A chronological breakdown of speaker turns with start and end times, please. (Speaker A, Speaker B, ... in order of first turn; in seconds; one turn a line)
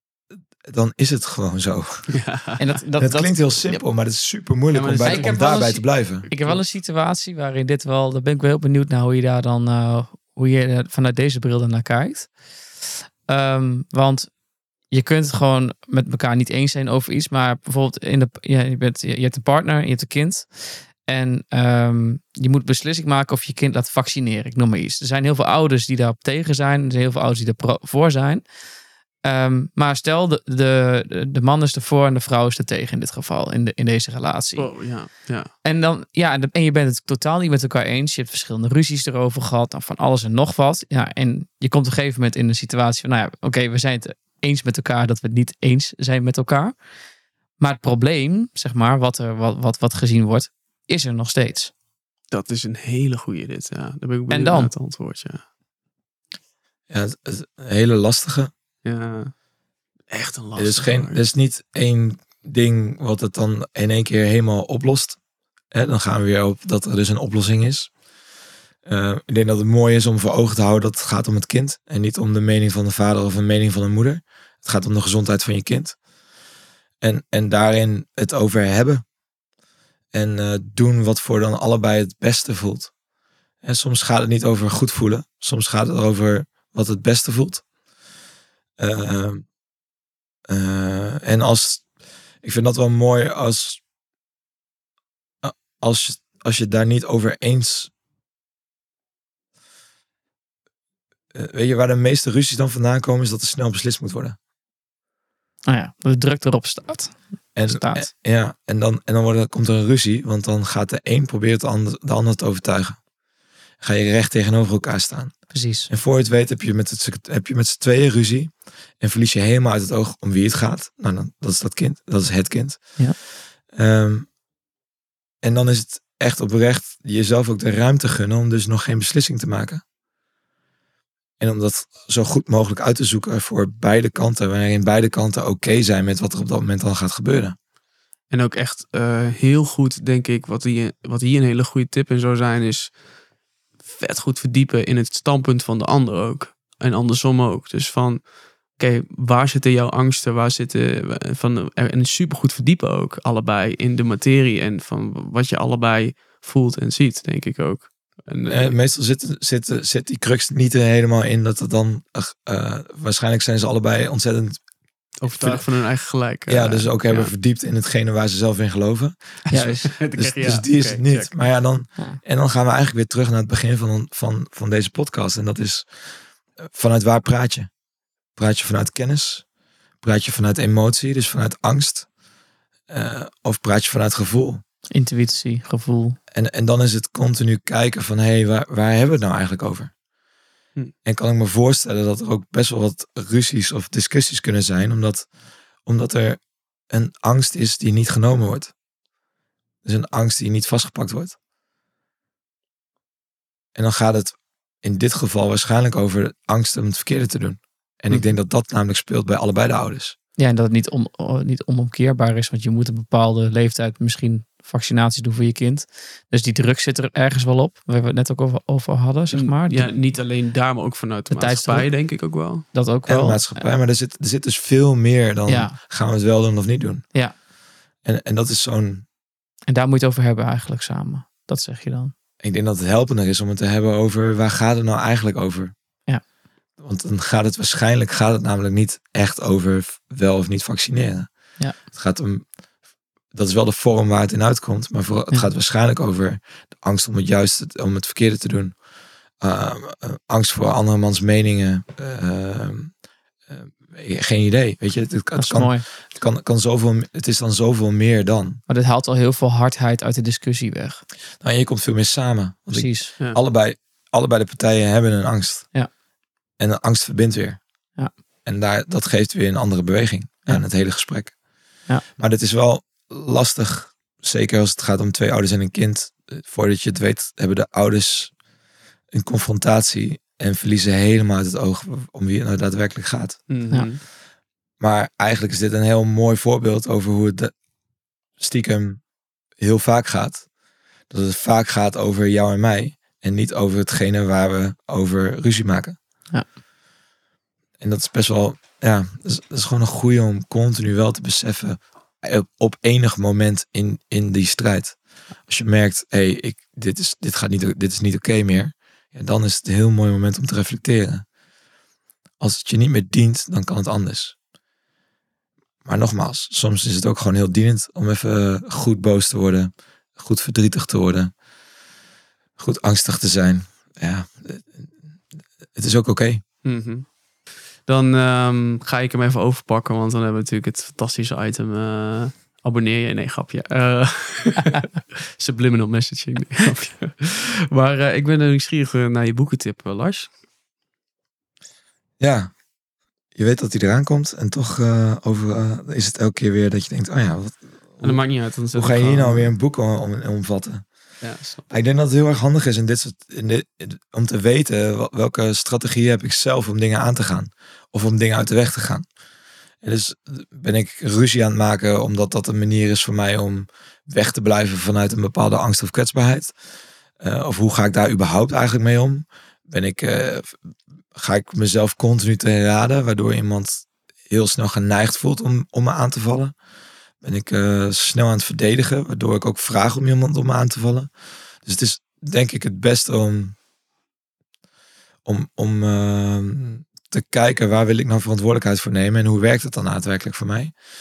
Speaker A: 0.6-2.1
Speaker B: 2.1-2.7
Speaker C: 2.6-3.8
Speaker A: 3.0-6.2
Speaker B: 4.7-5.7
Speaker C: 5.0-12.3
Speaker B: 6.3-6.6
Speaker C: 13.3-14.3
Speaker C: 14.9-28.4
Speaker C: 29.2-34.7
Speaker B: 34.5-35.5
Speaker C: 35.6-46.8
Speaker C: 47.6-51.7
Speaker B: 52.3-55.4
Speaker C: 54.3-54.7
Speaker A: 56.9-58.5
Speaker B: 58.8-59.3
Speaker B: 60.1-61.2
Speaker A: 60.5-65.2
Speaker A: 65.7-67.9
Speaker A: 68.8-76.0
Speaker A: 77.0-79.0
Speaker A: 80.1-82.9
Speaker A: 83.6-87.6
Speaker A: 88.8-89.5
Speaker A: 90.5-91.8
Speaker A: 92.4-93.8
Speaker A: 95.4-97.9
Speaker A: 101.3-104.4
Speaker C: 105.7-108.1
Speaker A: 107.5-113.0
Speaker A: 113.8-123.0
Speaker C: 115.5-115.9
Speaker A: 123.7-124.3
Speaker A: 125.4-129.8
Speaker A: 131.4-137.6
Speaker B: 138.3-142.9
Speaker B: 143.8-158.7
Speaker A: 158.5-164.6
Speaker B: 165.2-167.3
Speaker A: 165.2-165.6
Speaker A: 166.5-175.9
Speaker C: 169.5-169.9
Speaker B: 169.5-171.3
Speaker A: 176.6-177.7
Speaker A: 178.4-179.4
Speaker A: 180.0-182.1
Speaker A: 182.9-184.6
Speaker C: 184.9-186.2
Speaker A: 186.3-189.9
Speaker A: 191.0-195.3
Speaker A: 195.8-198.7
Speaker A: 199.8-201.3
Speaker A: 203.7-210.1
Speaker C: 210.4-219.9
Speaker B: 219.3-222.7
Speaker C: 221.3-222.0
Speaker C: 222.7-223.6
Speaker A: 223.1-227.1
Speaker C: 225.5-225.7
Speaker A: 228.0-229.0
Speaker C: 229.7-232.1
Speaker A: 232.4-235.7
Speaker A: 236.8-241.3
Speaker A: 241.8-242.4
Speaker A: 243.3-248.7
Speaker A: 249.4-252.9
Speaker A: 253.5-258.6
Speaker C: 255.3-255.8
Speaker C: 258.7-261.0
Speaker A: 261.4-265.7
Speaker C: 262.7-263.1
Speaker A: 266.6-267.6
Speaker A: 268.4-271.3
Speaker A: 272.2-278.3
Speaker A: 279.1-283.4
Speaker B: 283.5-284.0
Speaker A: 284.8-287.5
Speaker A: 288.4-289.0
Speaker A: 289.6-290.4
Speaker A: 291.1-296.0
Speaker A: 297.8-311.2
Speaker A: 312.4-314.4
Speaker A: 315.8-321.3
Speaker A: 322.6-324.9
Speaker A: 325.7-326.4
Speaker B: 326.6-327.1
Speaker B: 327.8-340.3
Speaker A: 342.2-342.5
Speaker A: 343.3-348.2
Speaker B: 348.0-349.5
Speaker A: 348.7-350.8
Speaker B: 351.2-351.7
Speaker A: 351.7-359.1
Speaker A: 359.8-366.5
Speaker A: 367.2-370.6
Speaker A: 371.1-376.5
Speaker A: 377.2-381.1
Speaker A: 381.6-383.6
Speaker A: 385.2-390.7